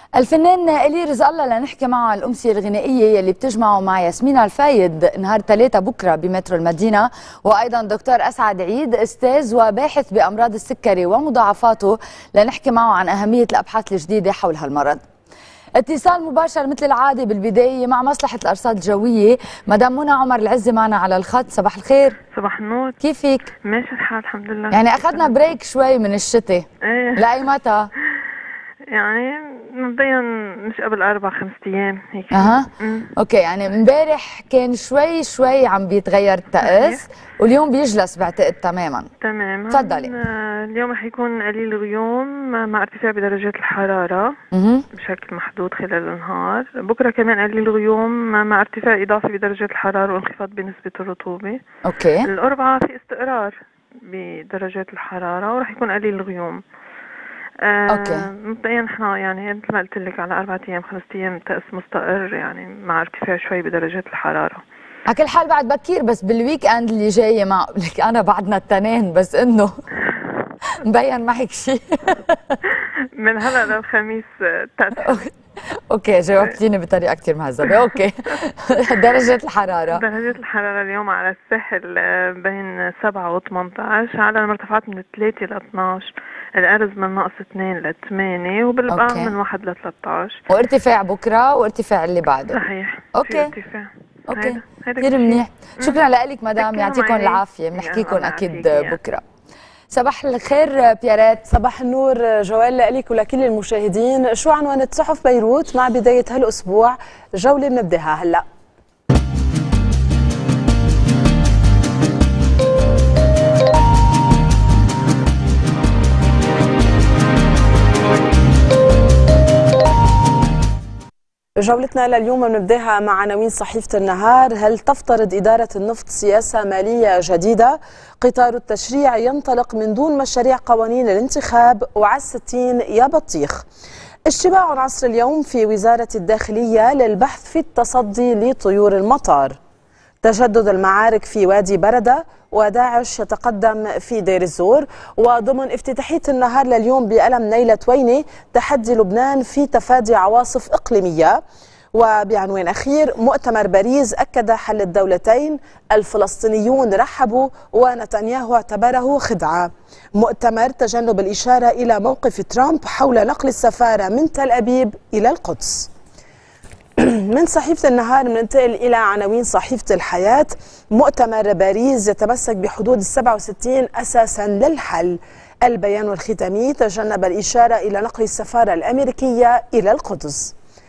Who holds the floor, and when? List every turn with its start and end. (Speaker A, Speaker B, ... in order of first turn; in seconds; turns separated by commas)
Speaker A: 0.2-15.0, Speaker A: 15.8-22.2, Speaker B: 22.3-23.0, Speaker A: 23.0-23.5, Speaker B: 23.7-25.3, Speaker A: 24.7-26.6, Speaker B: 26.9-27.4, Speaker A: 27.2-27.9, Speaker B: 28.9-33.1, Speaker A: 32.3-39.0, Speaker B: 36.6-37.0, Speaker B: 39.2-44.3, Speaker A: 39.7-40.1, Speaker A: 44.5-44.8, Speaker B: 44.9-51.6, Speaker A: 51.8-52.2, Speaker B: 52.3-56.6, Speaker B: 57.6-64.6, Speaker A: 57.9-58.2, Speaker A: 65.1-69.7, Speaker A: 70.8-72.3, Speaker B: 73.2-75.3, Speaker A: 75.9-80.0, Speaker B: 79.9-90.4, Speaker A: 88.9-89.3, Speaker A: 90.5-92.6, Speaker B: 92.5-96.0, Speaker A: 93.1-93.5, Speaker A: 94.3-99.2, Speaker B: 96.6-99.0, Speaker A: 99.9-101.5, Speaker C: 101.5-108.5, Speaker C: 121.6-133.6, Speaker C: 134.3-139.6, Speaker C: 140.2-151.4, Speaker C: 151.9-165.9, Speaker C: 167.0-180.5